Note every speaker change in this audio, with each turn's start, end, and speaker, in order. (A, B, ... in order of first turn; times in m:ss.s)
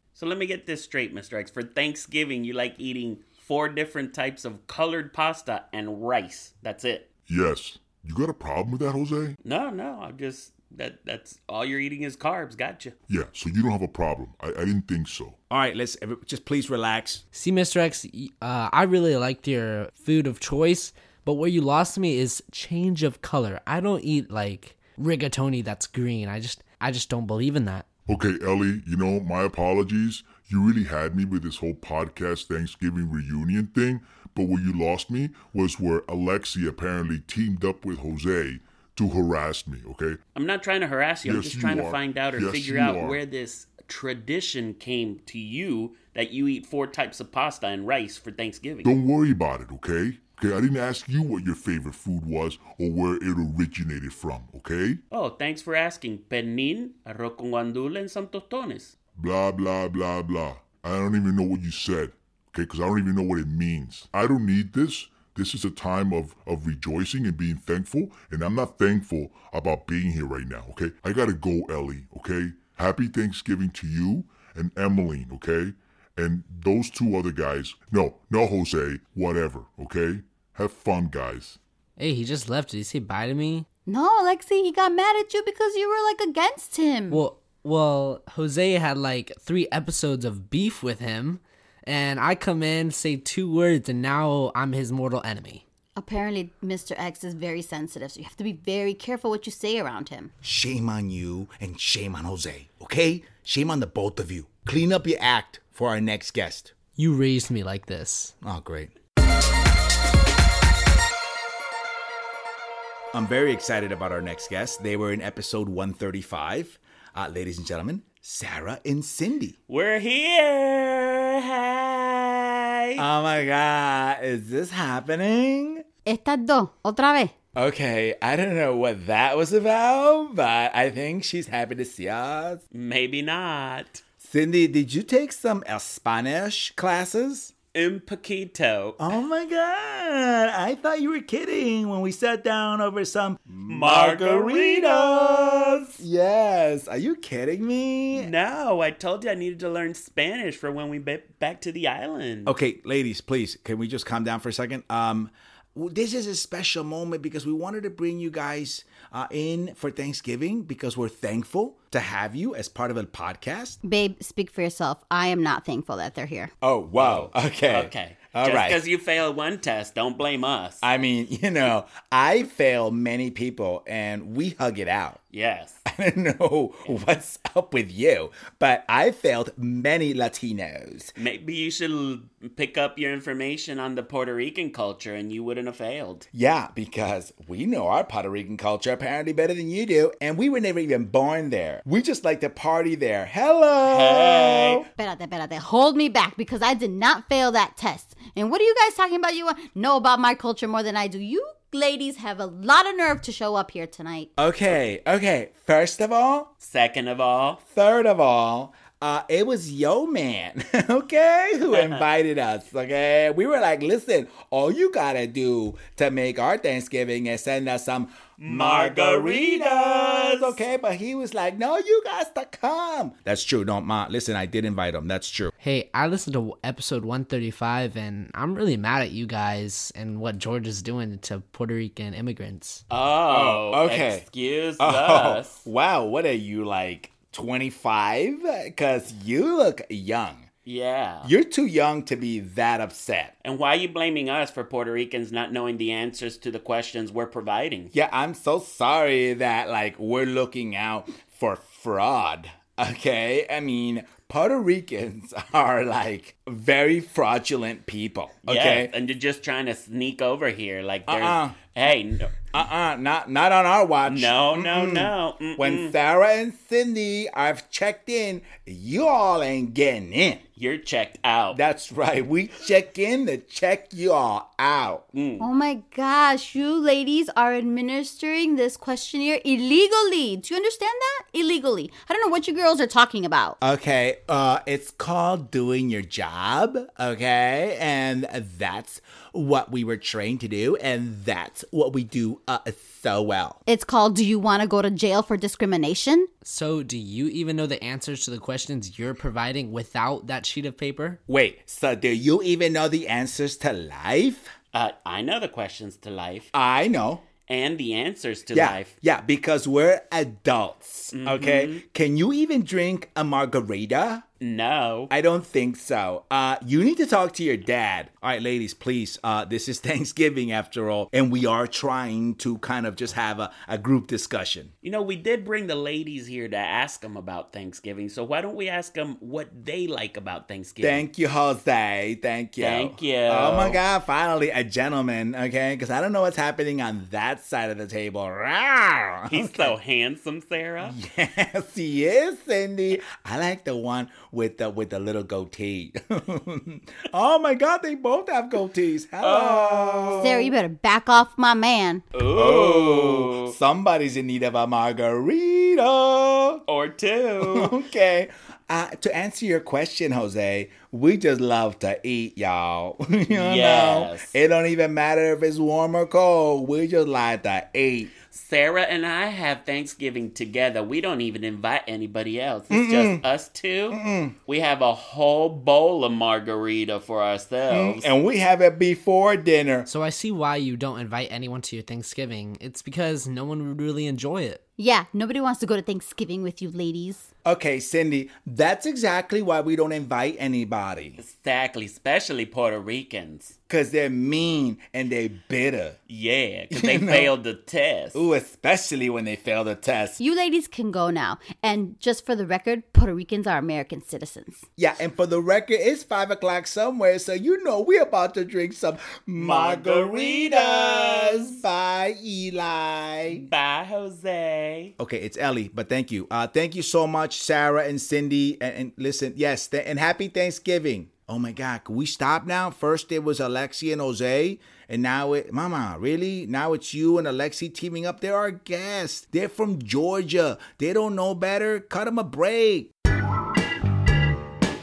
0:00.2-0:07.1 A
0:07.3-0:09.4 B
0:09.4-0:13.0 A
0:13.1-0:15.4 B
0:15.5-0:17.2 C
0:17.3-0:27.9 D
0:28.1-0:40.2 B
0:40.4-0:48.9 A
0:41.2-0:43.2 B
0:48.8-0:55.0 B
0:55.1-0:59.0 A
0:59.2-1:21.6 B
1:22.0-1:23.7 D
1:23.9-1:27.2 E
1:27.1-1:35.6 D
1:36.0-1:40.3 E
1:40.4-1:46.7 C
1:47.0-1:48.4 D
1:48.4-1:48.9 C
1:53.1-1:59.6 C
1:59.7-2:03.0 A
2:03.0-2:05.8 C
2:06.1-2:07.3 E
2:07.6-2:12.6 C
2:12.7-2:14.0 A
2:14.2-2:17.5 C
2:17.7-2:19.0 A
2:19.0-2:28.3 C
2:23.7-2:26.0 A
2:28.1-2:32.5 A
2:32.5-2:43.8 C
2:43.8-2:46.5 E
2:46.6-2:48.8 C
2:47.0-2:50.8 A
2:50.8-2:55.2 C
2:55.3-2:55.8 A
2:55.8-3:01.1 C
3:01.2-3:06.2 A
3:06.3-3:14.9 C
3:13.8-3:14.8 A
3:15.0-3:24.3 E
3:24.4-3:26.5 C
3:26.6-3:27.6 A
3:27.7-3:45.5 C
3:31.7-3:32.0 A
3:38.4-3:40.6 A
3:45.6-3:52.8 D
3:52.9-3:55.6 A
3:53.3-3:54.2 C
3:54.8-4:00.5 C
4:00.7-4:01.3 A
4:01.2-4:03.3 C
4:03.4-4:07.9 A
4:07.9-4:18.9 C
4:18.5-4:22.3 A
4:21.1-4:21.6 C
4:22.5-4:30.4 C
4:24.1-4:25.9 A
4:30.6-4:31.6 A
4:31.5-4:35.0 C
4:35.1-4:35.5 A
4:35.4-4:43.6 E
4:43.6-4:53.6 C
4:53.7-4:56.3 E
4:56.4-5:01.2 D
5:01.3-5:04.5 C
5:04.7-5:06.5 A
5:06.5-5:07.2 C
5:07.5-5:08.9 A
5:08.5-5:14.2 C
5:11.2-5:11.8 A
5:14.4-5:15.1 A
5:15.1-5:24.7 C
5:24.8-5:31.0 A
5:30.8-5:39.8 C
5:32.6-5:33.8 A
5:39.3-5:41.0 A
5:40.8-5:50.4 C
5:49.2-5:50.4 A
5:50.2-5:52.0 E
5:52.1-5:53.6 A
5:52.3-5:56.6 C
5:56.7-5:57.7 A
5:57.4-6:08.1 C
6:03.3-6:04.3 A
6:08.3-6:09.0 A
6:09.9-6:10.6 A
6:12.7-6:13.2 C
6:12.9-6:13.4 A
6:13.9-6:14.4 C
6:14.6-6:15.4 A
6:17.6-6:18.0 A
6:17.7-6:19.9 C
6:19.9-6:24.6 D
6:24.8-6:27.3 E
6:27.4-6:31.2 C
6:31.2-6:32.4 A
6:33.7-6:36.0 C
6:36.1-6:38.2 A
6:36.7-6:37.4 C
6:38.1-6:40.2 C
6:40.2-6:44.6 E
6:44.8-6:53.5 C
6:49.4-6:51.6 A
6:53.3-6:54.9 A
6:55.0-7:12.9 C